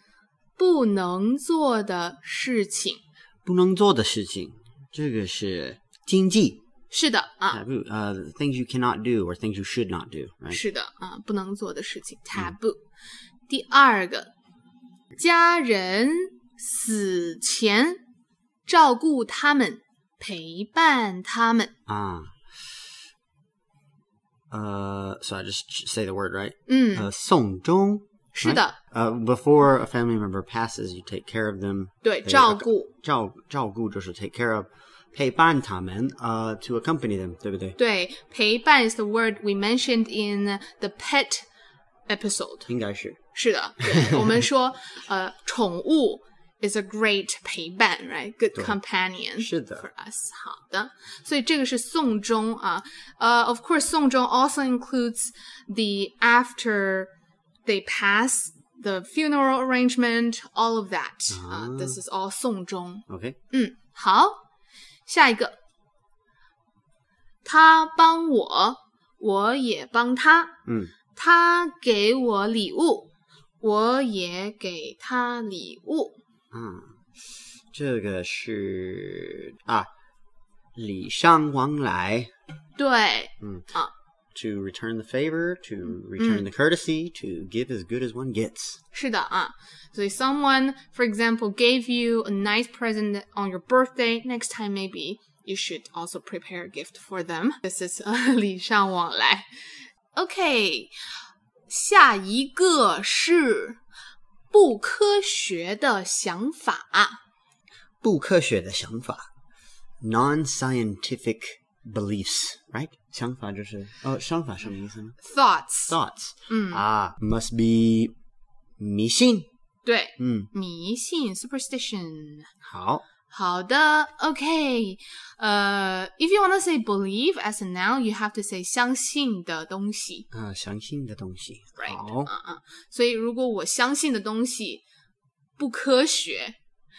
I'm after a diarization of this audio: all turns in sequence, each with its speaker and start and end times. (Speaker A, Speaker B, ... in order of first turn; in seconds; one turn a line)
Speaker A: 0.6-3.0
Speaker B: 3.5-6.6
Speaker A: 6.9-7.6
Speaker B: 7.5-10.6
Speaker A: 10.5-12.8
Speaker A: 13.5-14.3
Speaker A: 15.2-18.0
Speaker A: 18.7-21.7
Speaker B: 21.9-22.7
Speaker B: 24.5-37.8
Speaker A: 26.7-27.1
Speaker A: 28.4-28.8
Speaker A: 32.0-32.9
Speaker A: 37.8-41.5
Speaker A: 42.1-42.7
Speaker B: 42.7-43.2
Speaker A: 43.4-57.1
Speaker B: 43.8-44.4
Speaker B: 49.4-49.9
Speaker A: 57.7-64.4
Speaker B: 61.3-62.0
Speaker B: 63.1-63.4
Speaker A: 65.1-65.6
Speaker A: 67.4-70.5
Speaker B: 70.7-70.9
Speaker A: 71.1-73.1
Speaker A: 73.6-76.2
Speaker B: 76.5-77.0
Speaker B: 77.7-79.9
Speaker B: 80.8-82.3
Speaker A: 82.8-83.9
Speaker B: 83.4-83.7
Speaker B: 84.3-88.8
Speaker A: 86.2-86.5
Speaker A: 88.9-99.5
Speaker A: 100.2-100.9
Speaker A: 101.7-103.8
Speaker A: 104.5-107.2
Speaker B: 108.0-109.3
Speaker B: 110.0-115.2
Speaker A: 115.2-116.0
Speaker B: 115.9-118.1
Speaker A: 116.5-116.8
Speaker B: 118.8-119.5
Speaker A: 119.8-122.5
Speaker B: 120.2-120.5
Speaker B: 122.6-123.0
Speaker A: 123.3-130.3
Speaker B: 130.3-132.3
Speaker A: 131.8-134.8
Speaker A: 135.6-136.6